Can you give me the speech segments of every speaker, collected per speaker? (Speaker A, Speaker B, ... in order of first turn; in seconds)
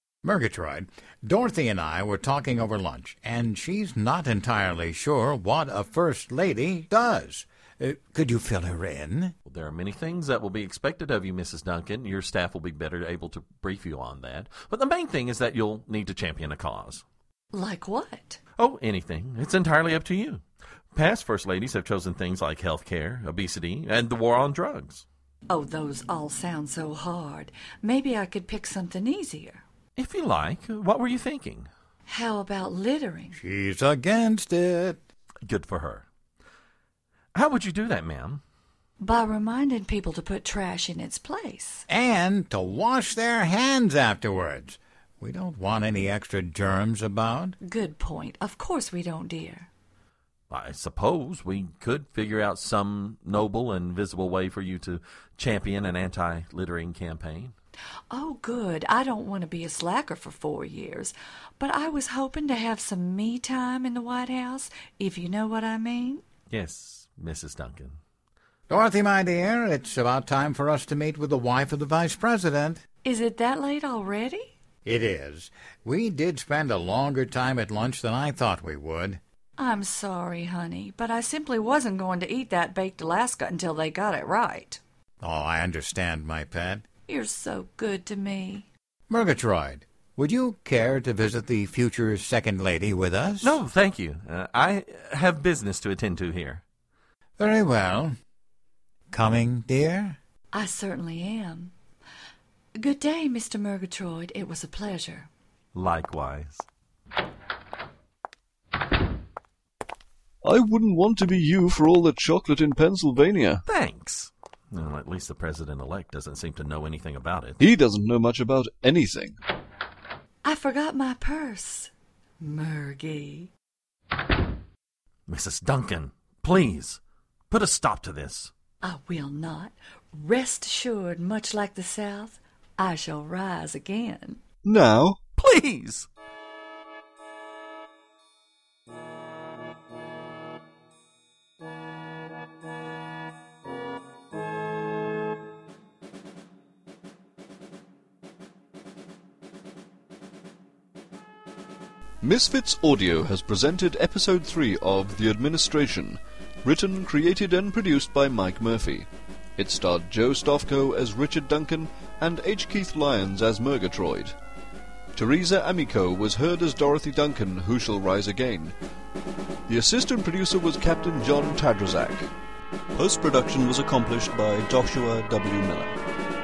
Speaker A: 0.2-9.3, 33.3-35.0, 41.9-47.6, 68.7-72.8, 74.8-79.2, 85.2-86.8, 89.1-93.6, 97.4-98.1, 99.1-100.2
Speaker B: 9.4-17.0, 18.6-20.4, 20.9-25.0, 30.0-31.7, 35.4-36.1, 37.3-38.4, 50.5-57.5, 66.5-68.0, 93.4-96.6, 105.7-106.6, 113.7-117.6, 125.3-128.5, 135.4-136.1
Speaker C: 17.5-18.4, 25.5-29.6, 32.1-33.4, 39.0-41.8, 47.6-49.7, 58.1-66.2, 73.0-74.5, 79.6-84.8, 87.1-88.7, 100.5-101.7, 102.8-105.3, 120.4-123.5, 128.8-134.4
Speaker D: 110.4-113.6, 117.6-119.4, 134.6-135.2, 152.2-164.3, 165.1-168.7, 169.7-172.3, 172.9-176.0